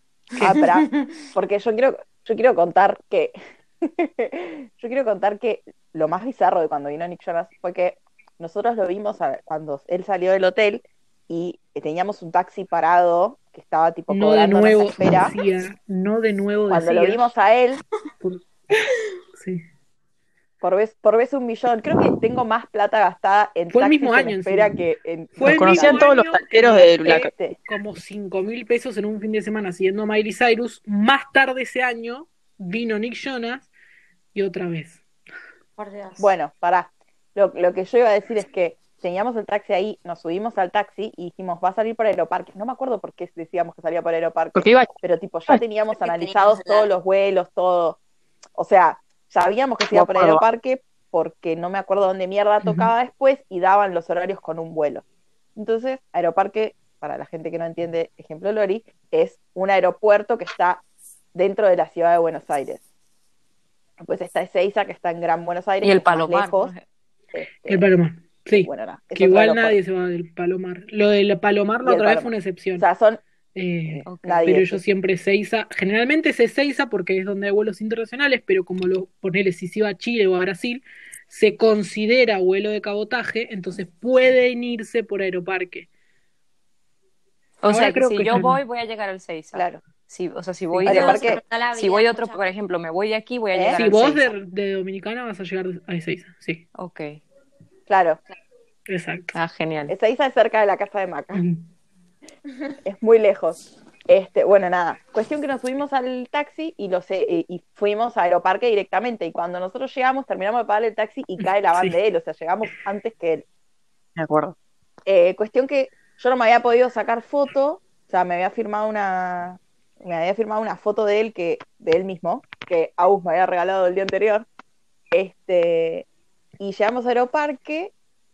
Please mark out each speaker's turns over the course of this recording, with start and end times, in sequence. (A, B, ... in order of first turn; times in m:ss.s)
0:00.3-0:00.6 A
0:00.4-0:15.4 B
0:00.4-0:01.2 C
0:14.1-0:17.3 A
0:16.7-0:17.8 B
0:19.4-0:19.6 A
0:20.6-0:26.1 B
0:23.7-0:24.8 A
0:25.4-0:33.7 A
0:25.4-0:27.3 D
0:27.0-0:27.6 B
0:34.3-0:35.0 A
0:35.8-0:36.3 C
0:36.2-0:48.0 B
0:44.6-0:44.9 D
0:45.9-0:46.9 C
0:48.6-0:55.0 B
0:49.9-0:50.4 D
0:52.6-0:52.9 A
0:55.6-1:00.8 B
1:01.3-1:02.8 B
1:04.0-1:06.7 B
1:05.8-1:06.8 E
1:07.3-1:07.9 B
1:07.7-1:12.9 A
1:08.5-1:09.8 B
1:11.8-1:13.2 B
1:13.6-1:25.9 A
1:13.9-1:14.8 B
1:14.1-1:14.4 E
1:27.6-1:34.3 E
1:27.7-1:28.6 A
1:29.5-1:29.8 B
1:30.8-1:31.4 B
1:30.8-1:32.5 C
1:33.5-1:33.8 B
1:33.8-1:36.6 A
1:36.8-1:37.2 E
1:37.9-1:38.2 B
1:38.9-1:39.4 A
1:39.3-1:40.0 E
1:39.9-1:41.4 B
1:41.3-1:41.6 A
1:42.8-1:43.6 B
1:44.1-1:53.4 B
1:51.4-1:52.0 A
1:54.2-1:54.6 D
1:55.1-2:04.5 B
2:05.1-2:06.1 B
2:06.6-2:07.9 B